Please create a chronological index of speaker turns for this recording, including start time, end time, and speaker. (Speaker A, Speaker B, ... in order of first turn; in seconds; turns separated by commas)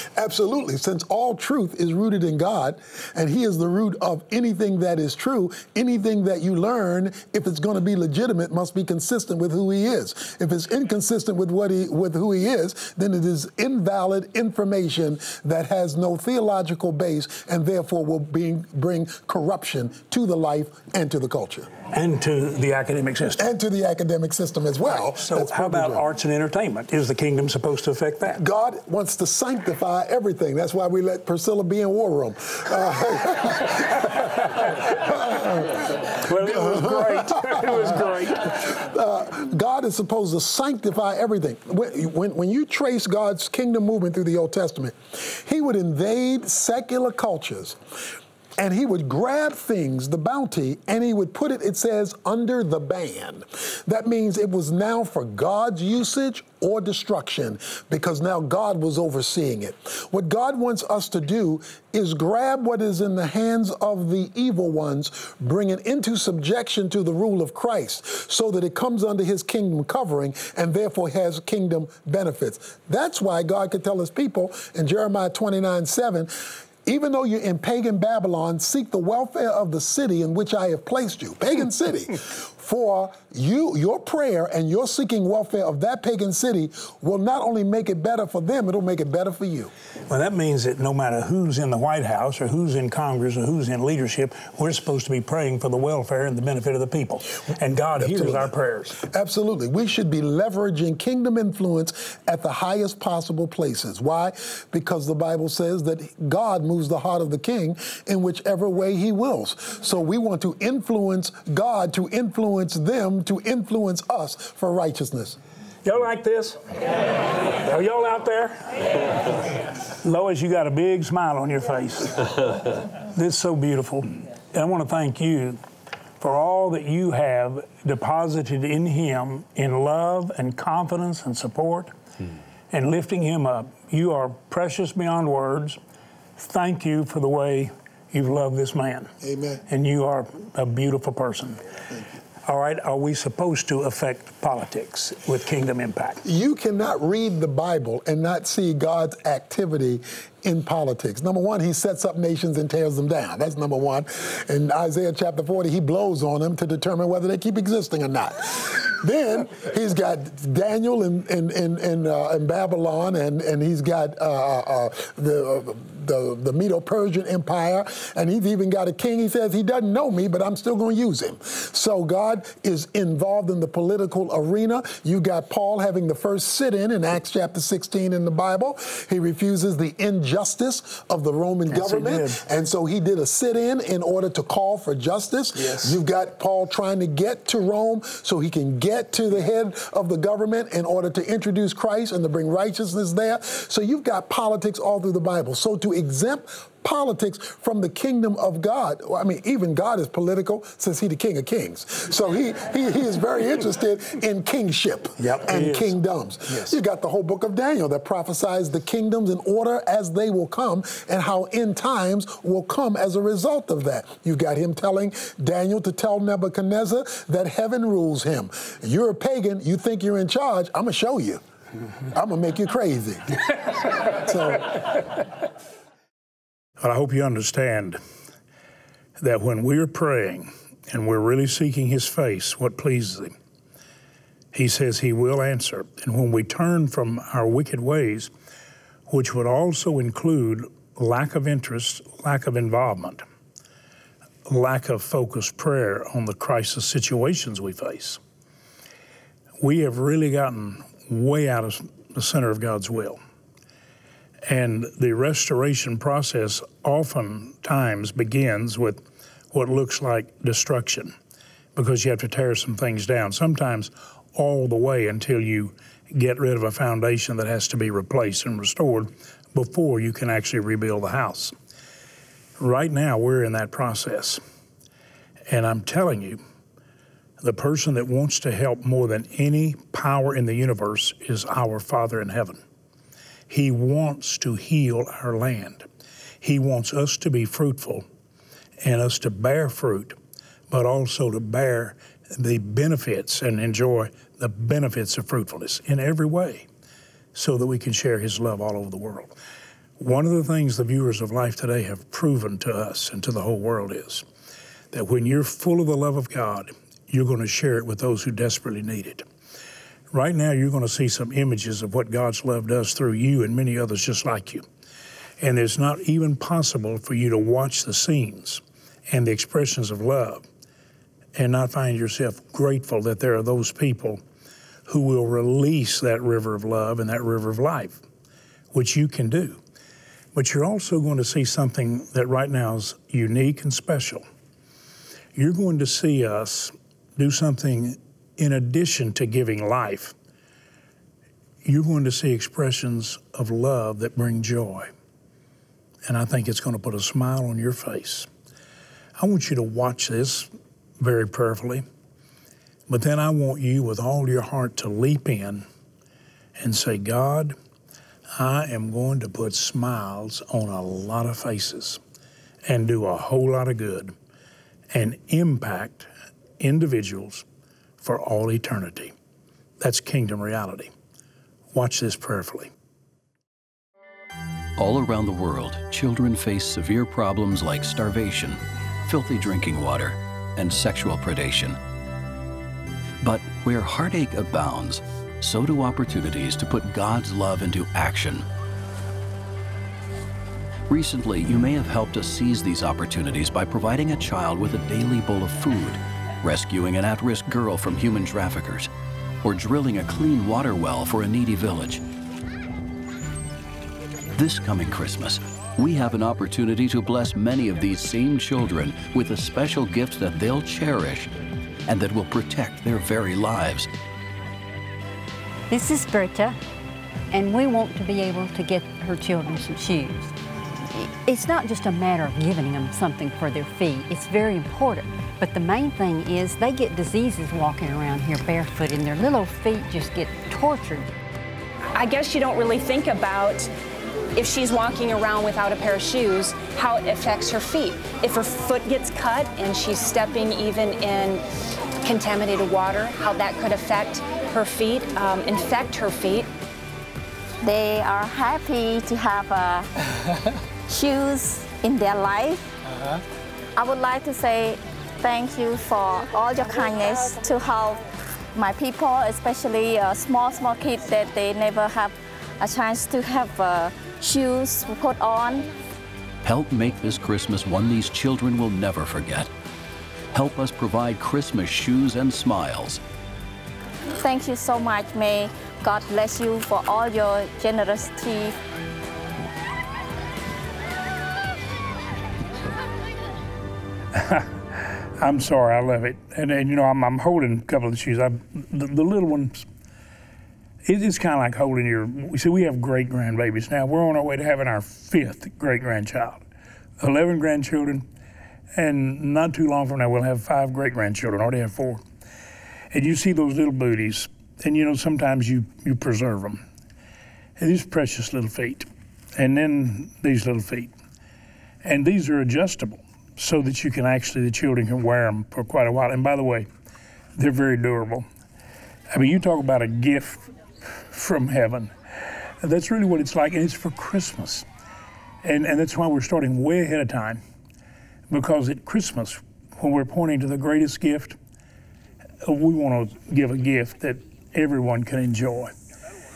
Speaker A: 0.1-21.7, Speaker B: 21.9-23.5, Speaker A: 23.4-26.1, Speaker B: 24.9-28.4, Speaker A: 28.4-47.8, Speaker B: 36.0-38.7, Speaker A: 48.6-89.7, Speaker B: 90.1-99.0, Speaker A: 98.0-115.4, Speaker B: 115.8-116.6, Speaker B: 117.4-118.6, Speaker B: 120.0-125.6, Speaker B: 126.2-131.9, Speaker B: 132.7-135.8, Speaker B: 136.4-139.1, Speaker A: 139.2-139.6, Speaker B: 139.7-141.6, Speaker B: 142.4-146.2, Speaker A: 146.2-221.4, Speaker B: 181.7-182.4, Speaker B: 185.5-186.0, Speaker B: 205.2-205.9, Speaker B: 206.5-206.8, Speaker A: 222.1-225.1, Speaker B: 226.8-228.0, Speaker B: 229.2-233.3, Speaker B: 234.5-238.3, Speaker B: 239.1-243.2, Speaker B: 244.4-248.2, Speaker B: 249.6-253.2, Speaker B: 254.4-261.1, Speaker B: 261.7-271.5, Speaker B: 272.6-274.4, Speaker B: 275.5-276.4, Speaker B: 277.4-282.6, Speaker B: 283.5-285.9, Speaker B: 286.4-288.0, Speaker B: 288.8-290.1, Speaker B: 290.7-296.7, Speaker B: 297.3-299.3, Speaker B: 300.0-304.2, Speaker B: 304.9-309.2, Speaker B: 310.1-314.6, Speaker B: 315.4-320.4, Speaker B: 321.3-324.2, Speaker B: 324.9-328.0, Speaker B: 328.7-329.6, Speaker B: 330.3-334.2, Speaker B: 335.3-340.1, Speaker B: 341.6-344.9, Speaker B: 346.0-348.3, Speaker B: 349.2-351.8, Speaker B: 352.9-355.6, Speaker B: 356.6-357.5, Speaker B: 358.4-362.0, Speaker B: 362.6-364.1, Speaker B: 364.9-366.1, Speaker B: 366.6-367.4, Speaker B: 368.0-369.1, Speaker B: 369.8-370.9, Speaker B: 371.7-372.7, Speaker C: 374.8-381.8, Speaker C: 383.2-388.4, Speaker C: 390.9-398.9, Speaker C: 399.4-402.0, Speaker C: 404.3-411.3, Speaker C: 411.9-413.9, Speaker D: 415.7-416.6, Speaker D: 417.3-420.3, Speaker D: 420.9-431.1, Speaker E: 431.9-433.7, Speaker E: 434.3-441.4, Speaker E: 442.0-446.5, Speaker F: 447.6-449.9, Speaker F: 450.9-452.7, Speaker F: 453.8-465.7, Speaker C: 466.4-469.5, Speaker C: 470.3-473.0, Speaker F: 474.1-478.5, Speaker B: 484.1-489.7, Speaker B: 490.8-496.4, Speaker B: 497.0-498.0, Speaker B: 498.7-502.0, Speaker B: 502.9-506.6, Speaker B: 507.6-510.9, Speaker B: 511.8-516.7, Speaker B: 517.4-518.2, Speaker B: 519.1-524.6, Speaker B: 525.4-527.4, Speaker B: 528.3-531.4, Speaker B: 532.4-535.7